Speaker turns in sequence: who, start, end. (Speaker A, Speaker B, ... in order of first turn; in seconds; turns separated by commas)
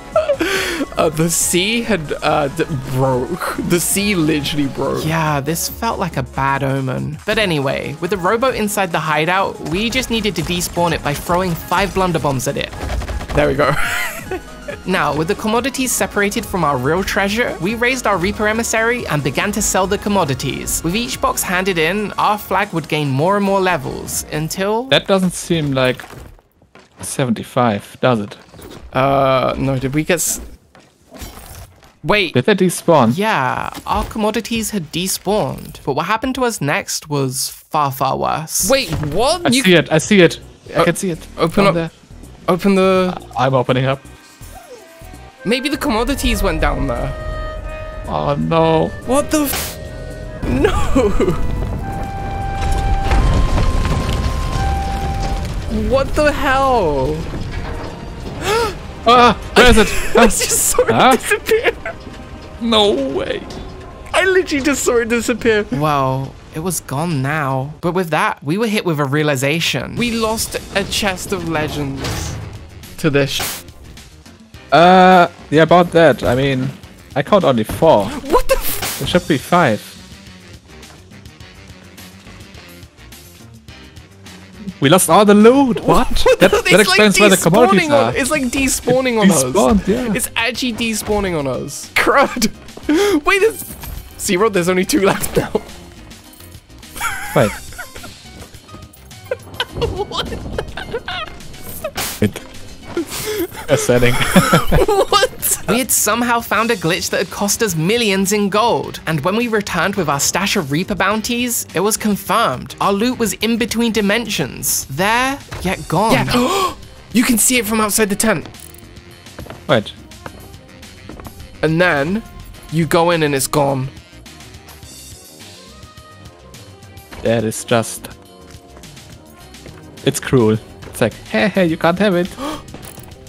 Speaker A: 0.2-5.1, Speaker B: 5.0-12.8, Speaker A: 13.3-14.4, Speaker B: 14.9-25.0, Speaker C: 24.9-26.1, Speaker C: 27.0-28.4, Speaker A: 28.9-30.4, Speaker A: 32.0-32.4, Speaker C: 32.3-33.2, Speaker B: 33.1-38.8, Speaker A: 38.6-39.7, Speaker C: 39.4-41.9, Speaker A: 40.7-41.9, Speaker A: 42.5-43.2, Speaker C: 43.1-44.0, Speaker A: 45.5-47.2, Speaker C: 48.1-48.9, Speaker A: 49.1-49.5, Speaker A: 50.4-51.4, Speaker A: 55.7-57.3, Speaker A: 58.4-58.8, Speaker C: 59.0-61.2, Speaker A: 59.5-61.9, Speaker C: 62.6-63.5, Speaker A: 64.1-65.8, Speaker B: 65.7-70.0, Speaker A: 70.0-72.4, Speaker A: 73.0-73.5, Speaker C: 74.7-78.2, Speaker A: 78.1-78.9, Speaker C: 79.0-80.0, Speaker C: 84.8-88.2, Speaker A: 85.8-95.7, Speaker C: 88.9-90.2, Speaker A: 97.1-97.5, Speaker A: 99.8-101.2, Speaker A: 103.0-105.8, Speaker C: 103.7-104.8, Speaker B: 105.7-116.4, Speaker A: 116.1-118.5, Speaker C: 119.7-120.0, Speaker A: 121.6-123.9, Speaker C: 127.2-128.1, Speaker C: 130.0-132.3